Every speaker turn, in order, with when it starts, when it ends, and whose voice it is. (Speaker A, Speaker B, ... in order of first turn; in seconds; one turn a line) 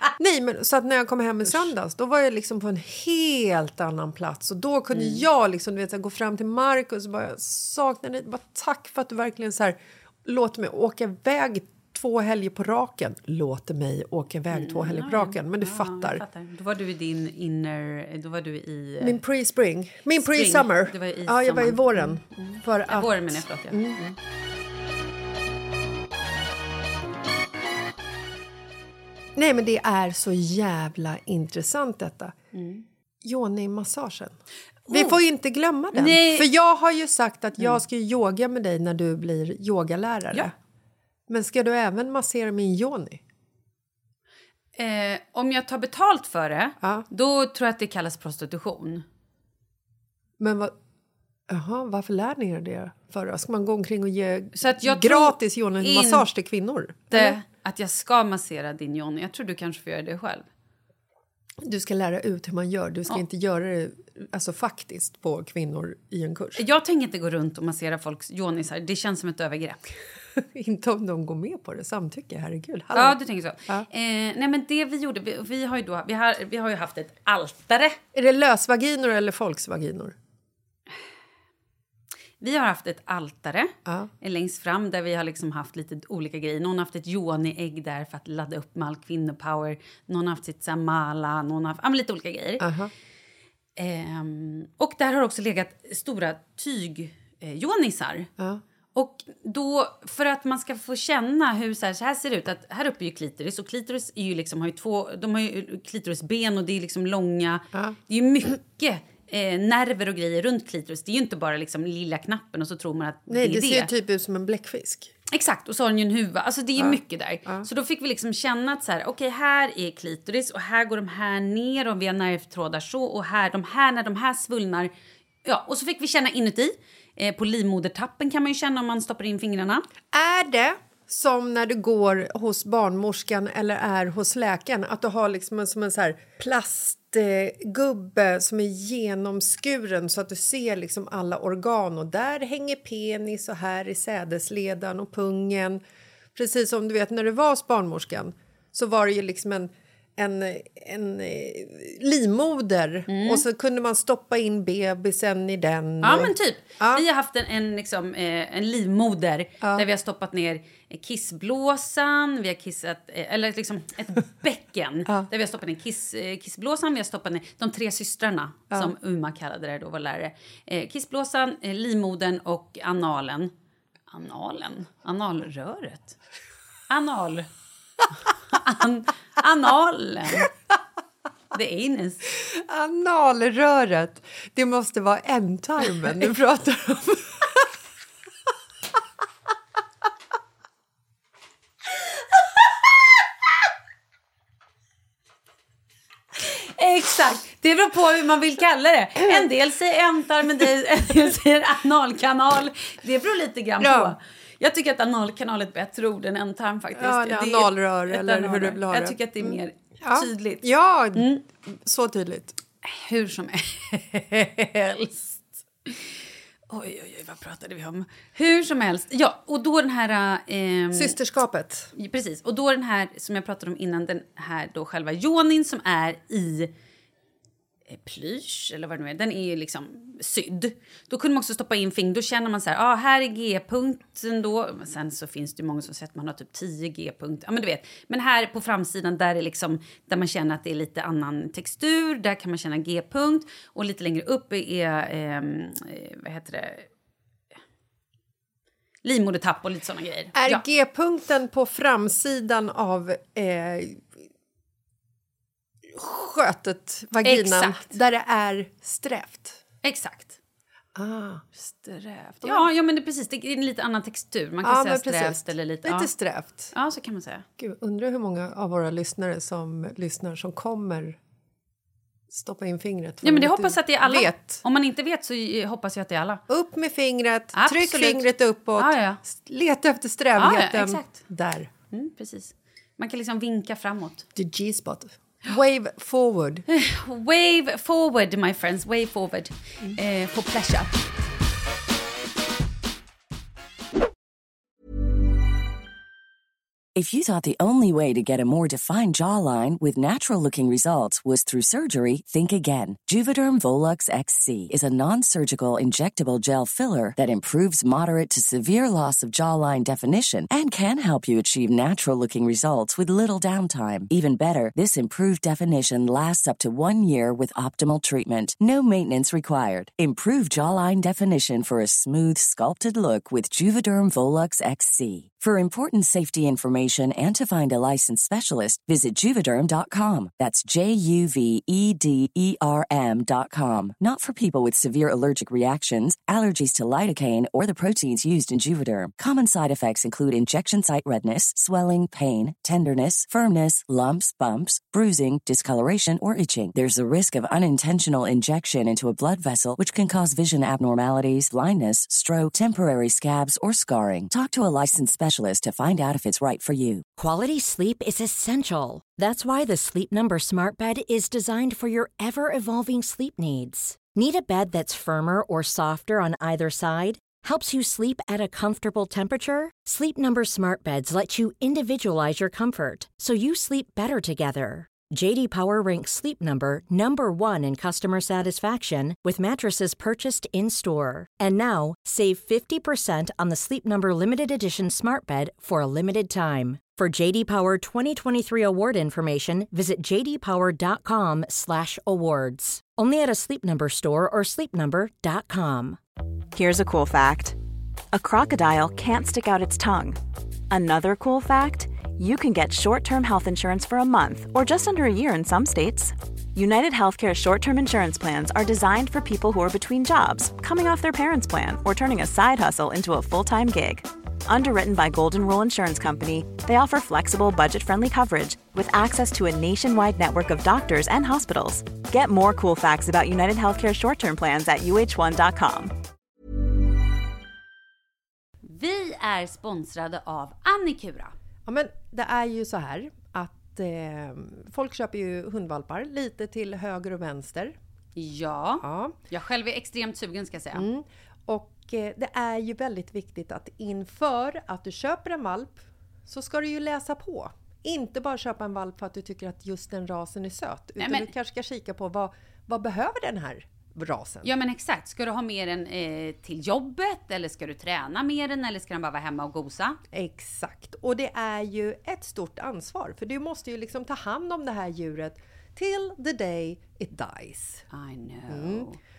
Speaker A: 0.1-16.2
Speaker B: 4.9-5.2
Speaker B: 14.5-19.2
Speaker A: 19.0-24.0
Speaker B: 20.2-24.1
Speaker A: 29.3-32.3
Speaker B: 32.5-32.8
Speaker A: 33.2-34.4
Speaker A: 34.9-40.5
Speaker B: 34.9-35.2
Speaker B: 35.9-36.5
Speaker A: 41.3-43.2
Speaker B: 44.8-49.0
Speaker A: 46.8-47.0
Speaker A: 50.4-50.7
Speaker A: 51.5-57.4
Speaker B: 54.5-56.3
Speaker B: 57.1-60.5
Speaker A: 61.6-66.6
Speaker B: 66.5-69.8
Speaker A: 70.4-73.9
Speaker B: 72.9-78.0
Speaker A: 78.1-80.2
Speaker B: 82.4-92.6
Speaker A: 83.8-84.1
Speaker A: 92.6-92.9
Speaker B: 93.8-98.3
Speaker B: 98.9-113.9
Speaker A: 113.3-115.1
Speaker B: 115.3-124.9
Speaker A: 116.8-117.7
Speaker B: 125.4-129.8
Speaker A: 130.1-145.8
Speaker A: 146.3-157.1
Speaker B: 153.1-153.4
Speaker B: 156.0-173.5
Speaker A: 159.6-159.9
Speaker B: 174.1-176.2
Speaker B: 176.9-177.5
Speaker B: 178.5-180.5
Speaker B: 181.5-182.2
Speaker A: 182.4-187.7
Speaker B: 196.4-211.4
Speaker A: 203.8-204.2
Speaker A: 206.9-212.6
Speaker B: 212.8-216.0
Speaker B: 216.7-221.2
Speaker A: 220.9-221.9
Speaker B: 221.9-226.7
Speaker B: 227.9-246.8
Speaker B: 249.0-250.6
Speaker A: 250.3-254.1
Speaker A: 255.9-259.6
Speaker B: 257.2-257.9
Speaker B: 259.8-260.4
Speaker A: 260.9-261.4
Speaker B: 261.6-266.1
Speaker A: 262.4-262.7
Speaker A: 264.6-266.7
Speaker B: 266.7-267.4
Speaker A: 267.6-271.2
Speaker A: 272.3-274.6
Speaker B: 273.2-276.4
Speaker A: 276.5-281.7
Speaker B: 277.5-279.2
Speaker B: 280.4-281.2
Speaker B: 281.9-284.3
Speaker A: 284.4-286.6
Speaker B: 286.7-290.9
Speaker C: 296.9-357.1
Speaker D: 357.1-396.0
Speaker E: 396.5-397.6
Speaker E: 398.1-400.2
Speaker E: 400.7-425.9
Speaker B: 428.6-431.3
Speaker A: 431.6-437.8
Speaker B: 438.1-440.9
Speaker A: 438.8-439.2
Speaker A: 440.7-454.5
Speaker B: 451.0-451.3
Speaker B: 454.4-460.0
Speaker A: 460.1-467.8
Speaker B: 467.9-469.0
Speaker A: 468.5-468.9